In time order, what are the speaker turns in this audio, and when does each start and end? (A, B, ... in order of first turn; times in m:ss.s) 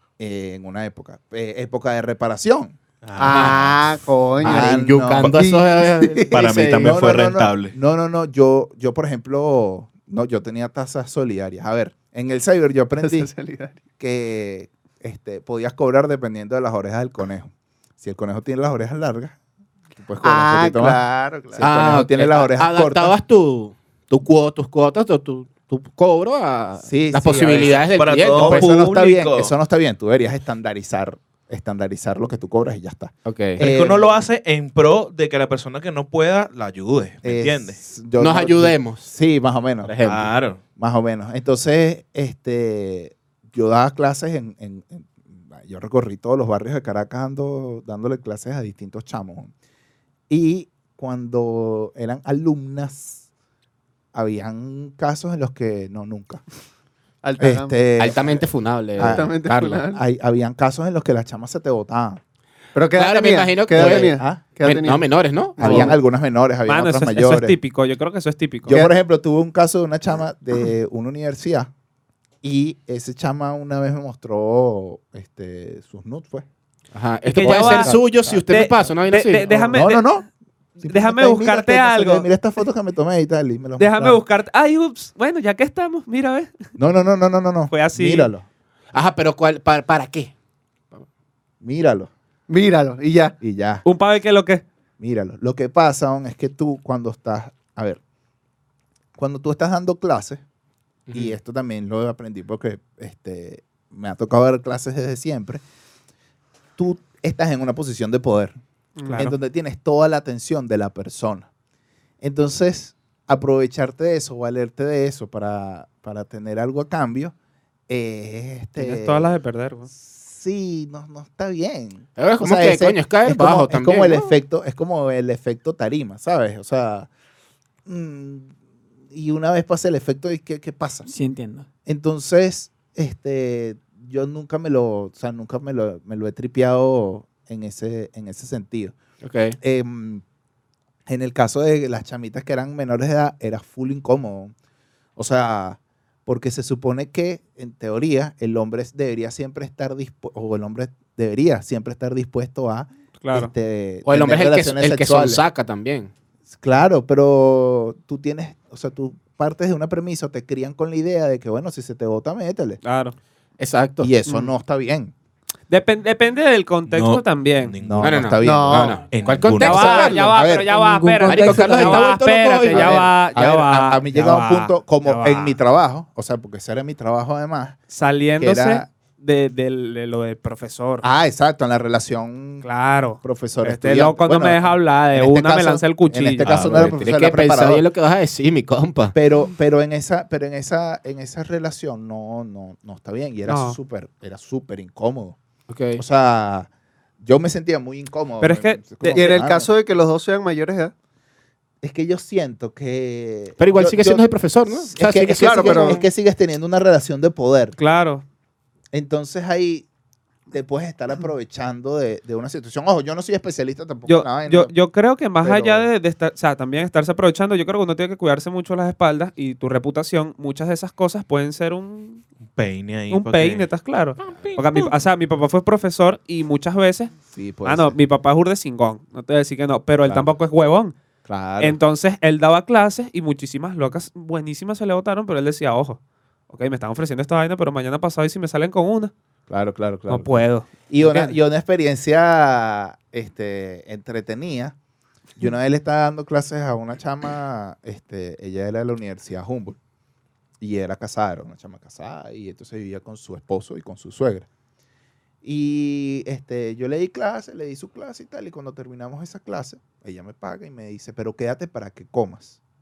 0:00.2-0:02.8 A
0:03.0-0:03.9 B
0:03.2-0:06.3 C
0:03.2-0:03.6 D
0:04.4-0:06.9 D
0:04.4-0:05.3 A
0:06.3-0:07.7 B
0:06.6-0:13.3 A
0:13.0-0:13.8 C
0:14.0-0:19.4 A
0:20.0-0:23.1 A
0:20.2-0:21.7 C
0:21.6-0:28.7 D
0:26.8-0:34.1 A
0:27.9-0:29.5 B
0:33.2-0:33.6 D
0:33.6-0:37.8 B
0:37.2-0:39.9 A
0:38.2-0:39.0 D
0:39.8-0:40.3 D
0:40.0-0:40.6 B
0:40.8-0:49.5 A
0:50.3-0:53.2 A
0:54.1-0:56.4 A
0:57.2-0:57.8 C
0:57.4-0:58.4 A
0:58.0-0:59.8 D
0:59.0-1:02.2 A
0:59.1-1:00.0 C
1:02.7-1:06.0 C
1:02.9-1:05.9 D
1:03.7-1:04.4 A
1:05.6-1:07.6 A
1:06.7-1:08.8 E
1:08.7-1:11.7 A
1:08.7-1:08.9 C
1:12.4-1:16.4 A
1:16.9-1:19.5 D
1:17.3-1:20.1 E
1:17.3-1:18.5 A
1:19.5-1:20.2 A
1:20.8-1:22.3 E
1:20.8-1:24.2 A
1:23.8-1:26.5 E
1:26.8-1:28.4 A
1:27.7-1:28.3 E
1:28.9-1:30.3 D
1:31.6-1:32.1 A
1:32.5-1:33.4 C
1:33.4-1:33.8 A
1:33.8-1:34.6 E
1:35.0-1:38.0 A
1:39.2-1:40.4 A
1:41.1-1:41.3 D
1:41.1-1:45.6 A
1:46.8-1:51.4 A
1:49.0-1:49.3 E
1:52.2-1:57.3 A
1:57.9-1:59.3 A
1:58.8-1:59.9 E
1:59.9-2:07.1 A
2:02.2-2:04.2 D
2:07.8-2:08.5 A
2:09.1-2:11.1 A
2:11.1-2:11.6 F
2:11.8-2:18.9 A
2:19.2-2:19.6 D
2:19.6-2:20.2 A
2:21.1-2:24.5 A
2:25.2-2:35.4 A
2:33.2-2:33.5 E
2:34.0-2:36.1 D
2:36.5-2:42.8 A
2:42.8-2:43.2 E
2:43.6-2:44.1 D
2:44.0-2:45.1 A
2:45.7-2:47.7 E
2:46.9-2:48.3 B
2:47.8-2:49.0 A
2:48.0-2:50.4 D
2:48.4-2:49.0 C
2:49.1-2:50.1 B
2:49.6-2:55.6 E
2:49.6-2:50.8 A
2:50.7-2:52.1 F
2:51.2-2:53.0 D
2:52.7-2:57.8 A
2:57.9-3:01.0 E
2:58.4-2:58.9 A
3:01.0-3:02.7 A
3:02.6-3:06.7 E
3:03.2-3:07.8 A
3:06.4-3:07.0 B
3:06.8-3:09.1 D
3:09.1-3:15.4 A
3:13.4-3:13.8 E
3:15.7-3:16.0 D
3:15.9-3:16.7 A
3:17.2-3:19.7 A
3:18.4-3:19.3 E
3:19.1-3:20.9 C
3:21.8-3:27.8 A
3:23.6-3:26.0 D
3:25.4-3:26.0 C
3:27.8-3:28.2 E
3:28.9-3:29.9 A
3:30.5-3:34.7 A
3:34.1-3:42.2 E
3:35.4-3:35.9 A
3:42.5-3:44.9 B
3:43.1-3:47.1 E
3:47.3-3:48.0 A
3:47.6-3:50.9 E
3:51.2-3:51.8 A
3:51.6-3:56.0 E
3:56.5-3:59.1 E
3:59.5-4:04.8 A
4:00.1-4:01.4 E
4:05.4-4:09.8 A
4:10.6-4:14.5 A
4:15.4-4:22.6 A